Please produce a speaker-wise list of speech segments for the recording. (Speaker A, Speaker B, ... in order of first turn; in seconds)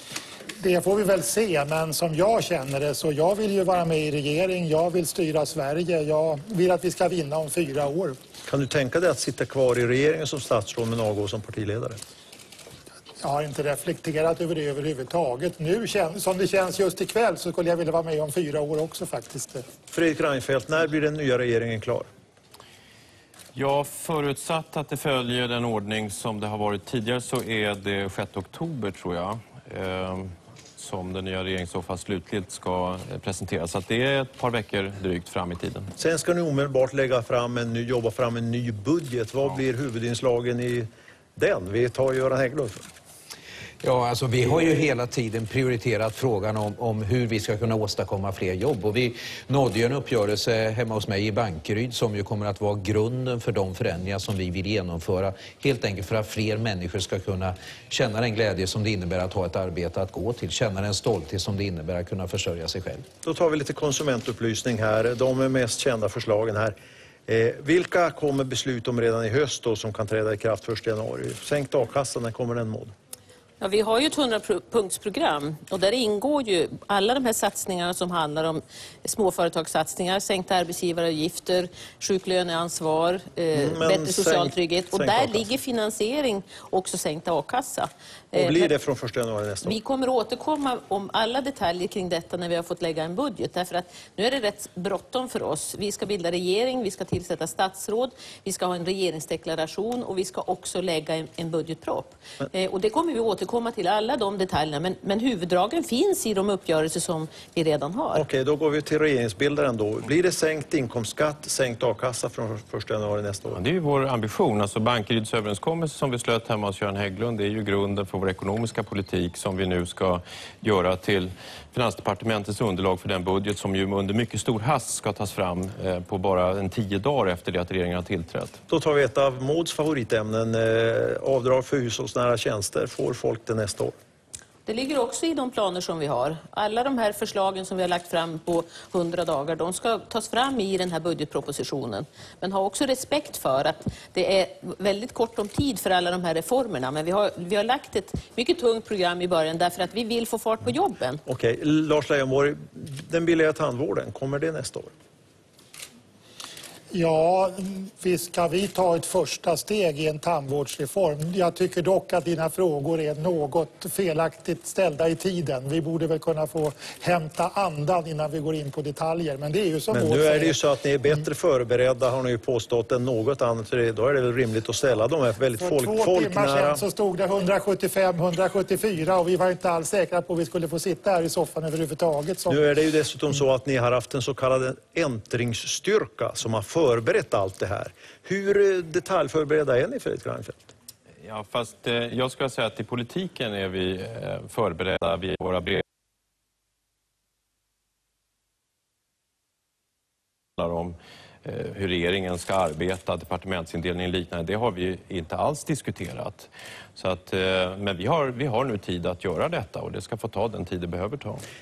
Speaker A: 0.6-8.2, 13.2-19.6, 156.9-170.6, 175.6-182.6
Speaker B: 8.5-12.0, 19.9-22.1, 36.0-42.8, 63.2-66.8, 67.3-72.9, 83.5-85.5, 88.3-89.8, 108.2-113.6, 128.7-133.9, 151.2-154.9, 169.9-176.8, 182.5-190.7
Speaker C: 23.5-35.9, 113.5-128.6, 191.2-195.8, 200.6-211.4
Speaker D: 43.8-63.0
Speaker E: 73.6-88.7, 89.6-108.2, 134.7-151.2